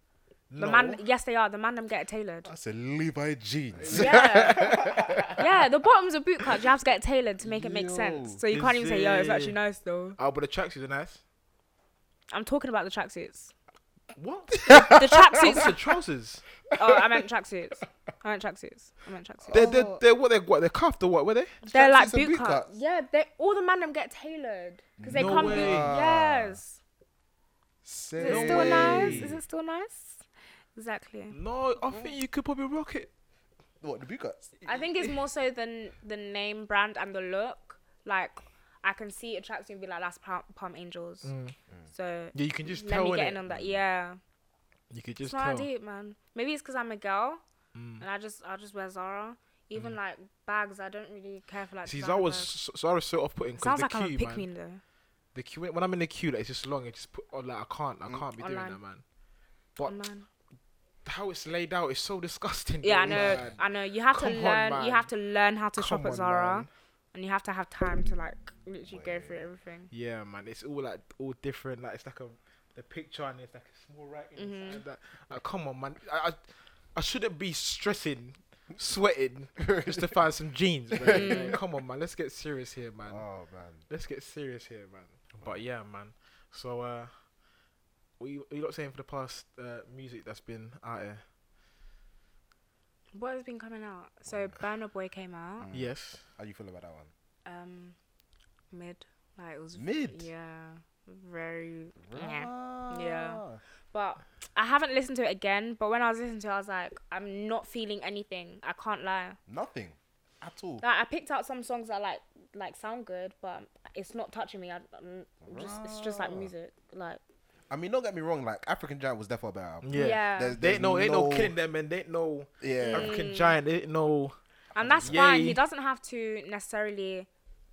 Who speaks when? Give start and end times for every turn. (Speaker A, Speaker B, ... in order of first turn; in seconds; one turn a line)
Speaker A: 0.5-1.0
Speaker B: 0.6-2.5
Speaker C: 2.5-5.4
Speaker A: 3.8-5.3
Speaker B: 3.9-4.8
Speaker B: 5.3-10.2
Speaker C: 7.4-8.4
Speaker A: 8.5-9.6
Speaker A: 10.2-11.2
Speaker B: 12.3-13.5
Speaker A: 14.2-16.4
Speaker C: 14.5-15.8
Speaker B: 14.6-15.8
Speaker C: 16.7-17.1
Speaker B: 16.8-19.7
Speaker C: 19.5-20.0
Speaker A: 19.5-21.5
Speaker C: 21.6-22.7
Speaker B: 21.7-26.8
Speaker C: 25.0-26.6
Speaker A: 25.1-25.9
Speaker C: 27.8-29.4
Speaker B: 28.2-31.4
Speaker A: 28.2-29.3
Speaker A: 31.3-33.1
Speaker C: 33.8-34.5
Speaker B: 34.6-41.3
Speaker A: 41.2-41.5
Speaker B: 41.9-44.2
Speaker A: 42.3-43.4
Speaker C: 43.5-43.8
Speaker A: 44.9-45.7
Speaker B: 45.2-47.4
Speaker A: 47.7-48.0
Speaker B: 48.0-52.5
Speaker A: 51.8-54.5
Speaker B: 53.6-54.8
Speaker A: 55.3-59.0
Speaker B: 58.4-58.8
Speaker B: 59.8-60.3
Speaker A: 61.0-65.1
Speaker B: 62.8-69.9
Speaker C: 63.1-63.4
Speaker A: 65.8-66.7
Speaker C: 68.8-69.5
Speaker A: 69.9-76.4
Speaker B: 74.4-74.8
Speaker A: 76.9-83.2
Speaker C: 79.6-80.2
Speaker C: 80.9-81.6
Speaker B: 81.1-81.6
Speaker C: 83.0-83.8
Speaker A: 83.9-87.2
Speaker A: 88.2-91.2
Speaker B: 93.1-95.7
Speaker C: 94.3-94.5
Speaker C: 95.6-97.1
Speaker A: 95.7-96.2
Speaker B: 97.4-98.0
Speaker B: 98.7-109.4
Speaker C: 99.7-100.3
Speaker C: 102.0-103.6
Speaker C: 109.5-110.8
Speaker B: 110.8-117.2
Speaker C: 115.4-116.5
Speaker C: 117.7-121.5
Speaker A: 119.8-124.3
Speaker B: 119.9-120.6
Speaker C: 122.6-123.2
Speaker B: 122.8-123.6
Speaker C: 124.7-125.2
Speaker B: 124.8-127.3
Speaker A: 125.0-125.6